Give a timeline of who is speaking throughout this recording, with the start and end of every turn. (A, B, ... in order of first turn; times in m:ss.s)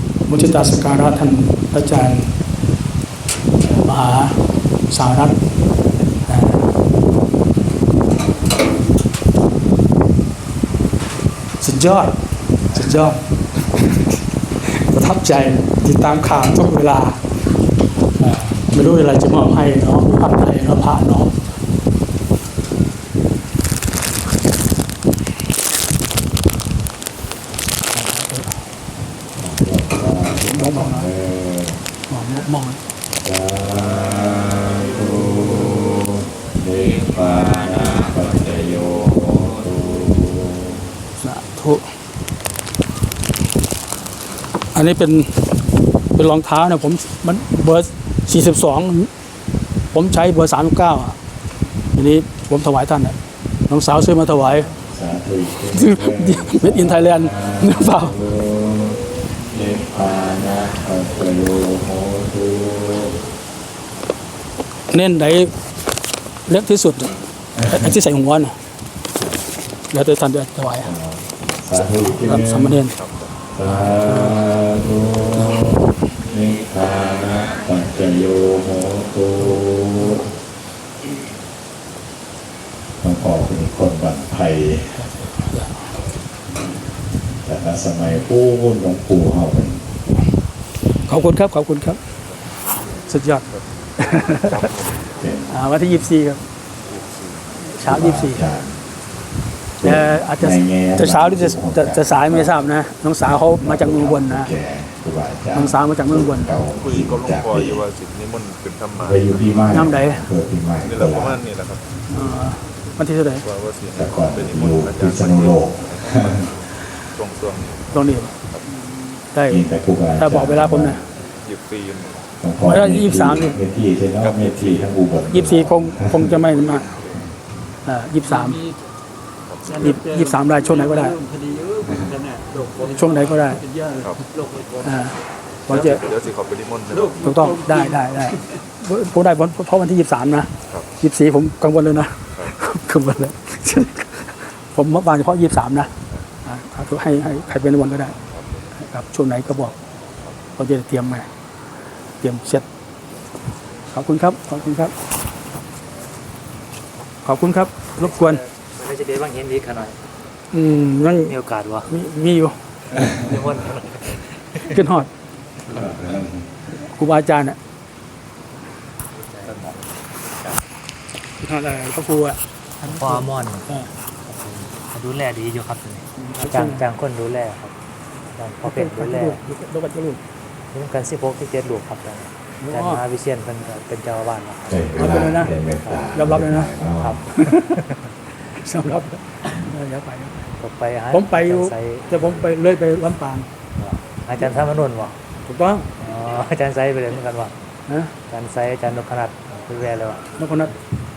0:00.3-0:02.3 A
0:03.7-0:05.4 A
0:06.3-0:06.7 A
0:11.6-0:12.2 A
0:12.7-0:13.2 A
0:14.6-0:17.2 A
0:18.2-0:21.4 A
0:27.9-0:28.5 A
0:29.4-0:31.8 B
0:30.4-0:31.1 A
0:32.1-0:32.8 A
0:33.2-0:40.8 B
0:41.2-0:41.9 A
0:44.7-0:45.4 A
0:46.2-0:49.1 A
0:49.9-0:51.2 A
0:52.0-0:53.2 A
0:53.7-0:54.7 A
0:54.5-1:03.2 B
0:55.7-0:58.2 A
1:04.9-1:05.5 A
1:06.5-1:08.5 A
1:09.9-1:10.9 A
1:10.8-1:12.8 B
1:12.2-1:13.0 A
1:13.0-1:13.3 C
1:13.5-1:20.3 B
1:13.7-1:14.4 A
1:23.0-1:25.1 B
1:25.2-1:25.8 A
1:27.4-1:29.9 B
1:31.1-1:32.0 A
1:33.1-1:33.5 A
1:34.0-1:34.7 A
1:34.1-1:35.1 C
1:35.2-1:35.6 B
1:35.5-1:36.4 A
1:36.9-1:37.5 C
1:37.7-1:38.4 A
1:37.8-1:38.8 B
1:39.8-1:42.5 B
1:39.8-1:44.5 A
1:43.6-1:47.8 B
1:45.5-1:46.5 A
1:46.8-1:49.8 C
1:49.0-1:51.4 B
1:49.7-1:50.3 A
1:50.8-1:51.8 C
1:52.1-1:53.5 A
1:53.4-1:58.0 C
1:53.9-1:56.5 B
1:57.9-1:58.3 A
1:59.3-1:59.6 A
1:59.5-2:01.0 B
2:00.2-2:01.0 A
2:01.3-2:02.3 C
2:02.4-2:06.4 B
2:02.6-2:03.6 A
2:04.2-2:04.9 C
2:05.3-2:06.9 A
2:06.5-2:07.2 C
2:07.9-2:08.7 A
2:09.5-2:10.0 C
2:09.8-2:11.2 A
2:11.2-2:12.9 D
2:12.8-2:13.6 A
2:13.7-2:14.0 D
2:14.0-2:14.2 C
2:14.8-2:15.2 A
2:15.7-2:16.0 A
2:15.7-2:17.3 C
2:17.2-2:17.7 D
2:17.2-2:25.9 A
2:26.4-2:28.2 A
2:28.8-2:29.7 A
2:30.6-2:31.3 A
2:32.2-2:32.6 A
2:33.9-2:34.9 A
2:37.2-2:38.4 A
2:38.0-2:40.0 E
2:40.5-2:41.3 A
2:41.3-2:41.9 E
2:41.9-2:42.6 A
2:43.0-2:44.6 E
2:44.6-2:45.1 A
2:45.7-2:46.4 B
2:46.8-2:47.6 A
2:51.4-2:52.4 A
2:52.8-2:53.7 E
2:52.9-2:53.9 A
2:54.3-2:57.7 E
2:56.2-2:56.8 A
2:58.4-2:59.4 E
2:58.6-3:00.2 A
3:00.7-3:05.3 E
3:02.6-3:03.0 A
3:04.7-3:07.3 B
3:05.0-3:05.5 A
3:06.1-3:06.7 A
3:07.0-3:07.9 E
3:07.4-3:07.8 A
3:08.5-3:10.4 A
3:10.6-3:12.1 E
3:11.1-3:13.5 A
3:13.8-3:15.2 E
3:15.5-3:15.9 A
3:16.0-3:17.5 E
3:17.9-3:18.1 A
3:18.3-3:20.3 E
3:20.4-3:20.8 A